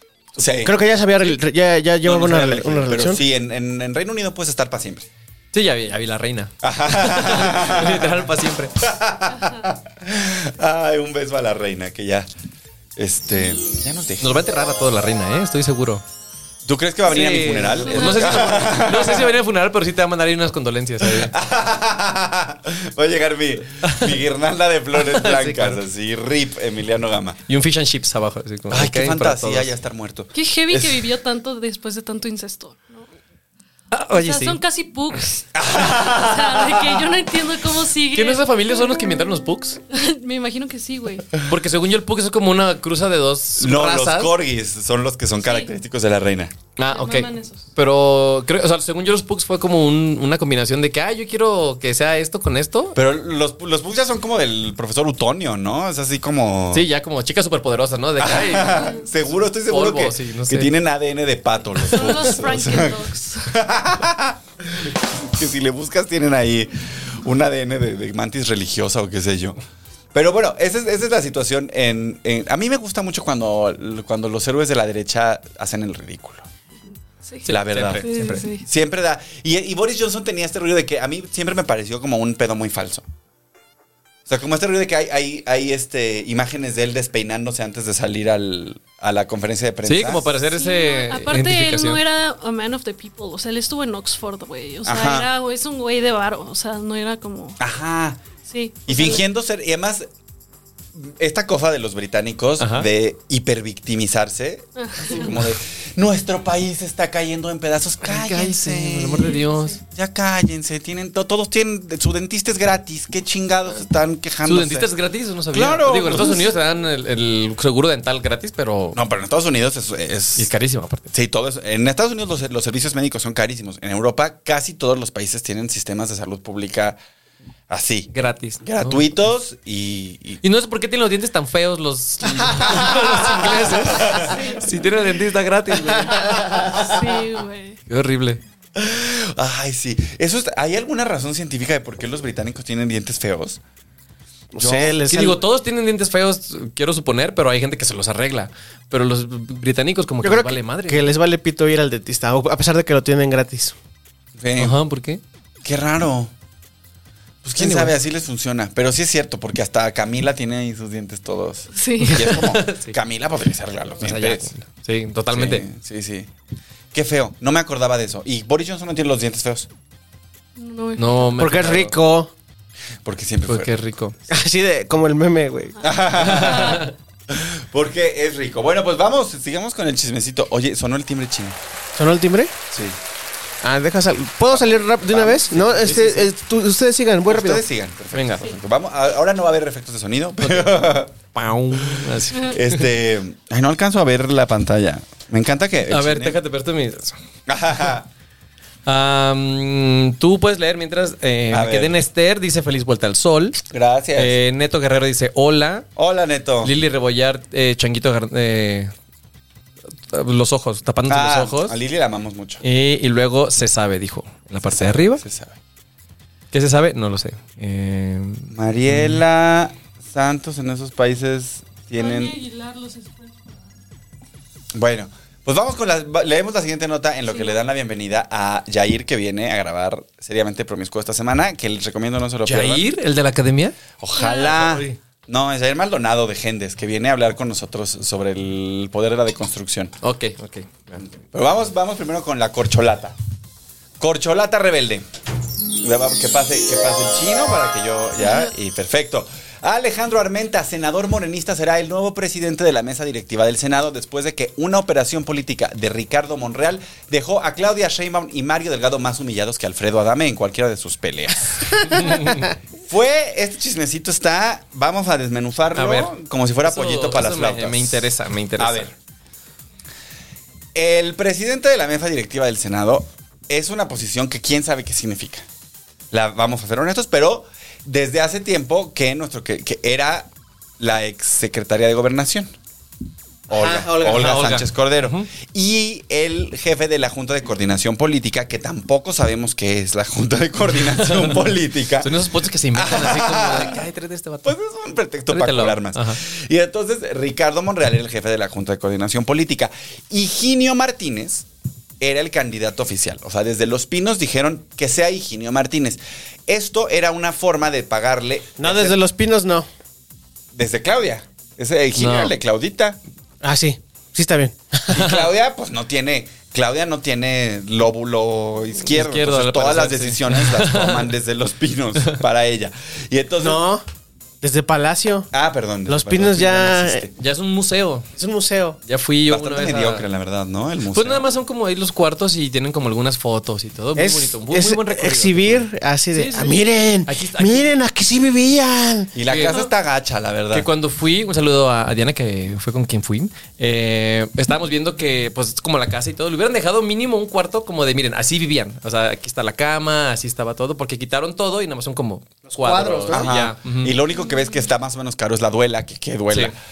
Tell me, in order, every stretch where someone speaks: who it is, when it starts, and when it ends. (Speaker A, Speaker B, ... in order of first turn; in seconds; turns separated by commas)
Speaker A: 0.4-0.8, Speaker B: 0.6-3.2, Speaker A: 2.0-5.1, Speaker C: 5.5-8.8, Speaker A: 6.6-12.3, Speaker A: 12.9-14.4, Speaker C: 14.2-16.0, Speaker A: 16.6-19.4, Speaker C: 17.1-21.3, Speaker D: 17.9-18.6, Speaker A: 21.0-27.4, Speaker C: 24.9-25.8, Speaker C: 27.5-29.7, Speaker A: 28.7-31.0, Speaker D: 30.3-33.1, Speaker C: 33.9-34.6, Speaker D: 34.1-38.5, Speaker A: 35.5-37.2, Speaker C: 38.1-39.8, Speaker D: 39.9-41.3, Speaker C: 41.4-44.3, Speaker A: 43.6-46.5, Speaker D: 45.4-45.7, Speaker C: 46.8-53.0, Speaker D: 46.9-47.6, Speaker A: 52.9-56.9, Speaker C: 56.7-59.0, Speaker A: 58.2-69.6, Speaker C: 59.6-60.7, Speaker D: 61.9-63.6, Speaker A: 70.1-76.5, Speaker D: 77.2-78.6, Speaker C: 77.5-78.4, Speaker A: 77.5-83.1, Speaker A: 84.2-90.3, Speaker C: 89.8-92.0, Speaker D: 90.5-97.6, Speaker A: 94.8-95.3, Speaker A: 97.6-98.2, Speaker D: 98.5-99.2, Speaker A: 98.9-100.1, Speaker A: 100.9-114.9, Speaker C: 102.6-102.9, Speaker D: 104.8-105.4, Speaker C: 108.0-109.8, Speaker D: 109.5-109.7, Speaker C: 114.4-119.0, Speaker A: 115.5-116.6, Speaker A: 118.9-120.5, Speaker C: 120.4-121.1, Speaker A: 121.1-127.0, Speaker A: 127.7-128.1, Speaker C: 128.1-129.0, Speaker A: 128.6-130.4, Speaker C: 130.4-136.3, Speaker A: 132.5-134.5, Speaker D: 134.3-134.6, Speaker D: 136.3-137.8, Speaker A: 136.6-136.9, Speaker C: 137.9-138.4, Speaker A: 138.8-143.6, Speaker B: 144.5-145.4, Speaker A: 144.6-144.9, Speaker C: 145.1-151.1, Speaker B: 150.2-153.8, Speaker A: 154.4-154.8, Speaker C: 154.6-155.2, Speaker A: 155.6-156.3, Speaker A: 157.4-164.5, Speaker C: 157.6-157.9, Speaker D: 161.7-162.5, Speaker C: 162.0-162.9, Speaker C: 164.0-165.6, Speaker A: 165.3-166.3, Speaker A: 166.9-169.7, Speaker D: 170.6-171.4, Speaker C: 171.0-171.9, Speaker B: 171.4-172.3, Speaker A: 173.0-173.8, Speaker C: 173.5-174.2, Speaker B: 174.3-175.8, Speaker A: 175.8-181.6, Speaker C: 176.2-176.9, Speaker D: 176.5-176.8, Speaker B: 181.9-182.5, Speaker A: 182.7-183.0, Speaker B: 183.6-187.6, Speaker A: 184.5-186.0, Speaker C: 185.7-186.3, Speaker A: 187.3-191.1, Speaker C: 188.1-188.5, Speaker C: 190.4-192.8, Speaker A: 191.7-196.4, Speaker C: 195.9-197.2, Speaker A: 197.5-198.1, Speaker C: 198.9-203.6, Speaker A: 201.5-202.0, Speaker A: 203.7-204.4, Speaker C: 204.2-205.9, Speaker A: 205.9-206.7, Speaker C: 206.6-208.9, Speaker C: 210.1-211.8, Speaker A: 211.1-212.6, Speaker C: 212.6-215.2, Speaker A: 214.7-215.6, Speaker C: 216.5-219.2, Speaker A: 218.5-222.4, Speaker D: 222.0-223.6, Speaker A: 224.7-232.8, Speaker D: 227.3-227.6, Speaker C: 232.4-233.8, Speaker A: 234.0-239.9, Speaker D: 234.2-234.6, Speaker C: 234.5-235.0, Speaker C: 240.0-241.0, Speaker A: 241.1-243.2, Speaker A: 244.0-245.1, Speaker A: 245.8-268.9, Speaker C: 261.9-262.5, Speaker C: 265.7-268.9, Speaker A: 270.7-275.4, Speaker A: 276.1-282.5, Speaker A: 283.5-292.2, Speaker B: 283.5-284.2, Speaker C: 284.0-285.3, Speaker C: 291.0-294.6, Speaker A: 292.7-293.8, Speaker A: 294.4-301.5, Speaker C: 295.3-296.2, Speaker A: 302.0-309.0, Speaker B: 308.6-309.7, Speaker A: 310.5-313.0, Speaker C: 312.0-312.3, Speaker B: 313.4-314.9, Speaker A: 314.9-323.6, Speaker C: 314.9-315.3, Speaker C: 318.8-321.1, Speaker B: 323.4-323.8, Speaker B: 324.4-325.3, Speaker A: 325.3-327.1, Speaker B: 325.9-327.0, Speaker C: 327.2-328.1, Speaker B: 328.2-328.8, Speaker C: 328.9-330.0, Speaker A: 329.3-331.2, Speaker C: 330.9-337.7, Speaker B: 333.9-339.1, Speaker A: 339.1-340.7, Speaker C: 339.2-339.6, Speaker C: 340.5-353.9, Speaker B: 352.4-353.3, Speaker A: 353.1-356.5